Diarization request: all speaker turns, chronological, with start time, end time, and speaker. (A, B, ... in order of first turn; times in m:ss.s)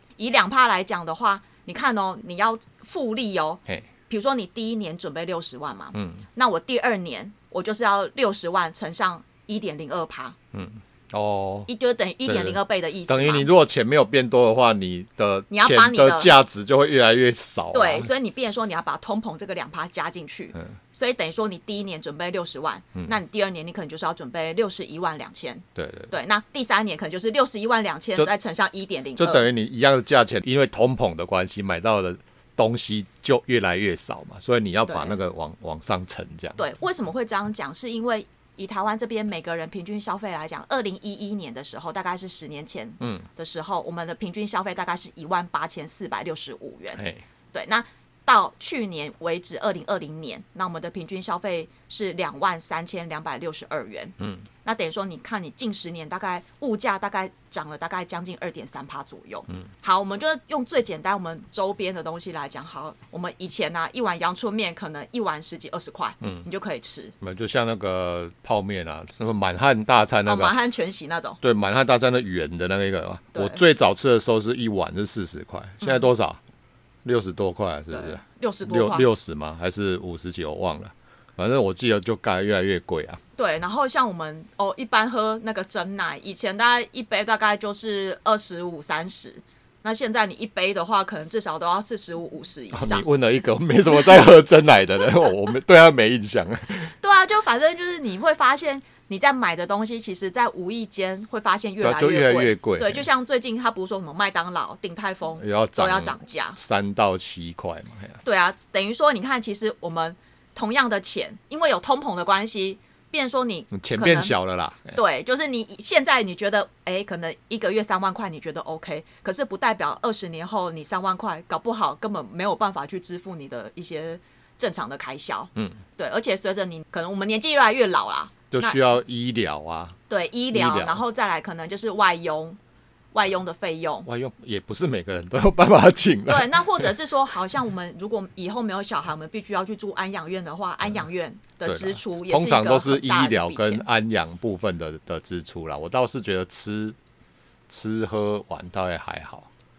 0:00.2-0:10.4 A
0:05.9-0:06.2 B
0:10.5-0:11.7 B
0:11.7-0:13.5 A
0:12.2-0:18.1 B
0:15.5-0:16.3 A
0:17.7-0:29.5 A
0:25.8-0:26.1 B
0:29.2-0:36.6 B
0:34.9-0:35.2 A
0:36.6-0:47.0 A
0:43.0-0:43.2 B
0:47.0-0:47.2 B
0:47.5-1:07.1 A
1:07.2-1:10.5 B
1:10.2-1:11.4 A
1:11.4-1:16.4 B
1:13.3-1:13.6 A
1:15.8-1:16.1 A
1:17.0-1:23.2 B
1:17.9-1:19.1 A
1:23.4-1:33.0 A
1:32.7-1:36.9 B
1:37.0-1:46.6 A
1:41.8-1:43.0 B
1:45.4-1:48.2 B
1:48.2-1:54.3 A
1:53.7-1:55.0 B
1:54.9-2:08.8 A
2:08.5-2:10.0 B
2:10.1-2:12.6 A
2:10.5-2:11.0 B
2:13.1-2:14.1 A
2:14.0-2:16.9 B
2:16.3-2:23.8 A
2:21.6-2:27.0 B
2:27.7-2:29.5 B